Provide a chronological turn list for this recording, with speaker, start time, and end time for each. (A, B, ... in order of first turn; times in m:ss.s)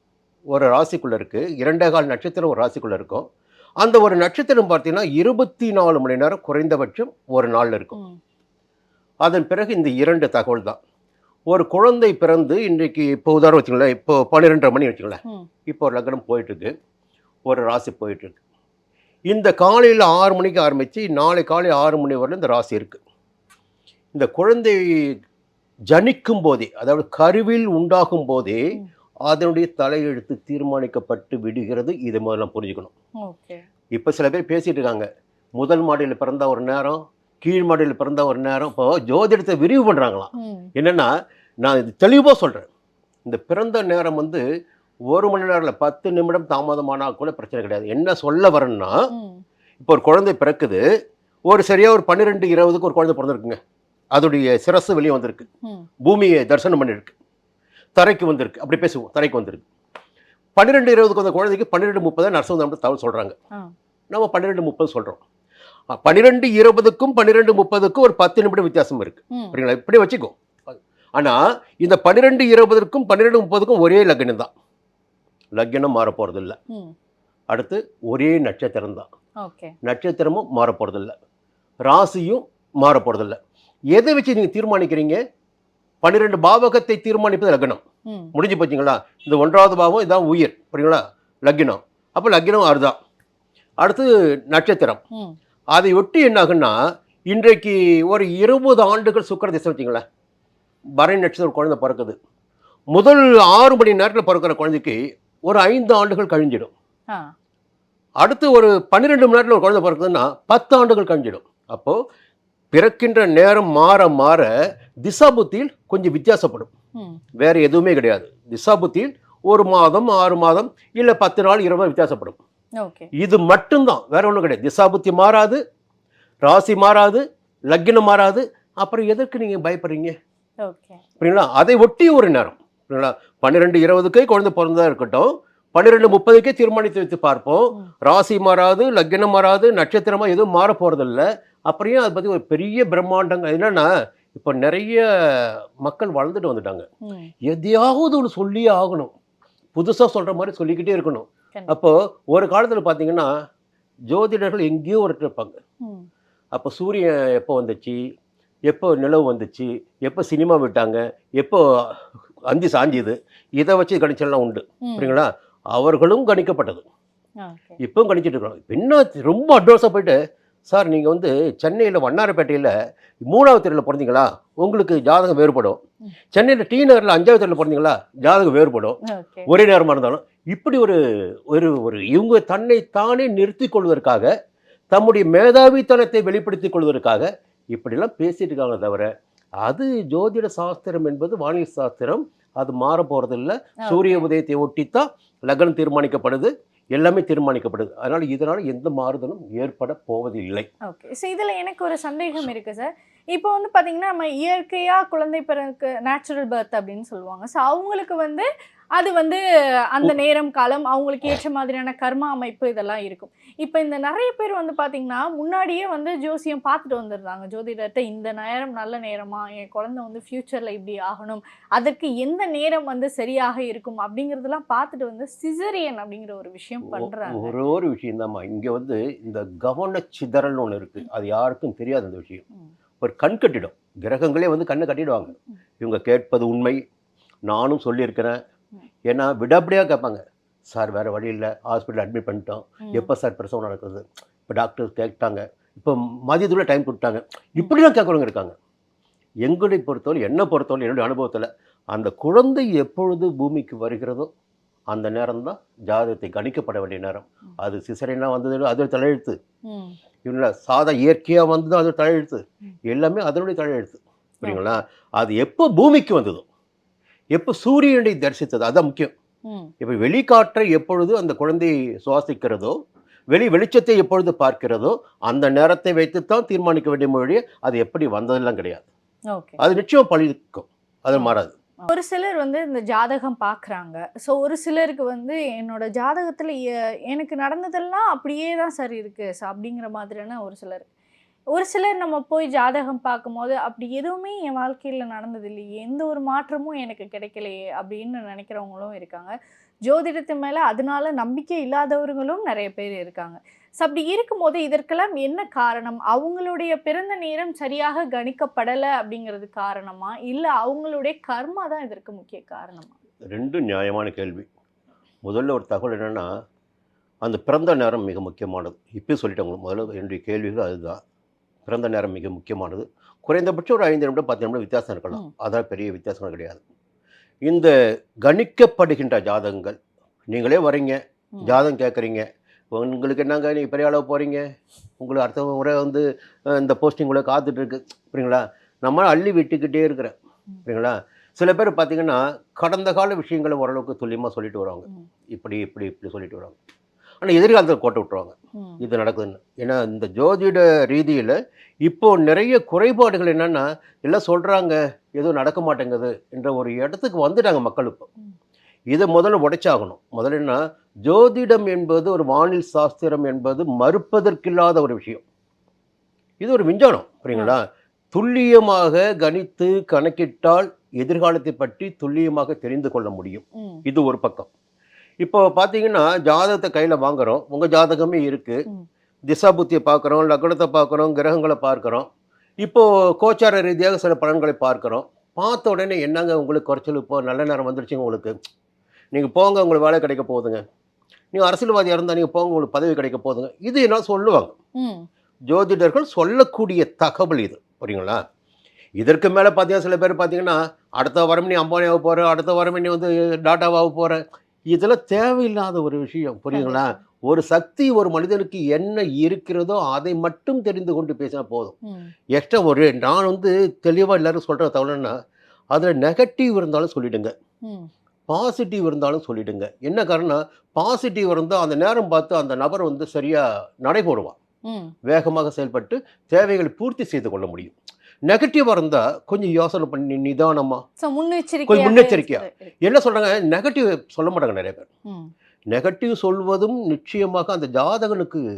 0:00.5-0:03.2 A
0:03.8-0:08.0 A
0:09.2-0:10.8 A
0:11.5-0:16.7 A
0:17.5-0:18.4 A
0:19.3-0:23.0 A
0:24.1-0:25.1 A
0:25.9-0:28.6 A
0:29.2-0:32.9 A
0:33.2-0:33.6 B
0:34.0-0:35.0 A
0:35.6-0:41.1 A
0:40.4-0:40.7 B
0:41.6-0:42.7 A
0:43.2-0:44.4 A
0:45.1-0:49.0 A
0:49.1-0:49.4 B
0:49.8-0:50.8 A
0:51.5-0:53.6 A
0:54.1-0:55.5 A
0:56.0-0:57.1 A
0:58.0-0:59.6 A
1:00.6-1:03.4 A
1:04.1-1:05.2 A
1:05.9-1:10.4 A
1:09.3-1:09.6 B
1:11.2-1:14.5 A
1:15.6-1:16.6 A
1:17.5-1:19.1 A
1:19.4-1:19.7 B
1:19.8-1:21.1 A
1:21.8-1:23.4 A
1:23.9-1:25.2 A
1:26.0-1:27.8 A
1:28.3-1:33.0 A
1:33.8-1:35.0 A
1:35.7-1:36.7 A
1:37.3-1:40.0 A
1:41.0-1:42.2 A
1:42.9-1:46.7 A
1:48.2-1:52.0 A
1:52.7-1:54.5 A
1:55.0-1:56.7 A
1:57.4-2:02.4 A
2:02.8-2:03.1 B
2:03.2-2:05.6 A
2:06.4-2:10.1 A
2:10.6-2:11.0 B
2:11.2-2:26.8 A
2:27.0-2:27.3 B
2:27.5-2:29.1 A
2:29.8-2:33.3 A
2:34.1-2:35.6 A
2:36.5-2:38.0 A
2:38.7-2:41.6 A
2:42.5-2:46.8 A
2:44.8-2:45.2 B
2:47.4-2:47.8 B
2:47.8-2:50.2 A
2:50.7-2:52.7 A
2:53.3-2:55.8 A
2:56.3-3:01.0 A
2:59.0-2:59.5 B
3:01.5-3:04.3 A
3:04.9-3:09.1 A
3:09.6-3:20.7 A
3:13.8-3:14.3 B
3:20.8-3:29.4 B
3:29.9-3:47.6 B
3:46.9-3:52.4 A
3:53.0-3:56.8 A
3:57.5-3:58.3 A
3:59.1-4:08.5 A
4:02.8-4:03.1 B
4:09.4-4:14.3 A
4:14.9-4:19.4 A
4:19.7-4:20.0 B
4:20.2-4:26.4 A
4:24.4-4:24.8 B
4:27.3-4:29.1 A
4:29.5-4:29.7 B
4:29.8-4:32.8 A
4:33.3-4:38.9 A
4:39.3-4:39.6 B
4:39.6-4:41.5 A
4:41.9-4:50.9 B
4:51.5-4:59.3 B
4:59.9-5:13.0 B
5:13.3-5:14.5 A
5:15.2-5:16.3 A
5:17.2-5:21.0 A
5:21.7-5:26.6 A
5:27.5-5:27.7 A
5:28.2-5:29.8 A
5:30.3-5:34.4 A
5:31.4-5:31.6 B
5:35.0-5:40.1 A
5:40.6-5:46.6 A
5:47.2-5:58.1 A
5:48.6-5:48.8 B
5:58.9-6:05.2 A
6:06.4-6:07.6 A
6:08.1-6:14.5 A
6:13.6-6:13.8 B
6:15.2-6:18.6 A
6:19.3-6:22.1 A
6:22.6-6:28.3 A
6:29.1-6:30.6 A
6:31.3-6:34.5 A
6:34.8-6:35.0 B
6:35.5-6:38.2 A
6:39.0-6:44.2 A
6:44.7-6:51.8 A
6:46.5-6:47.0 B
6:51.9-6:52.1 B
6:52.3-6:55.1 A
6:55.7-6:57.3 A
6:58.3-7:04.4 A
7:04.7-7:04.9 B
7:05.1-7:07.7 A
7:08.3-7:10.8 A
7:11.0-7:12.7 B
7:11.7-7:14.9 A
7:15.7-7:18.4 A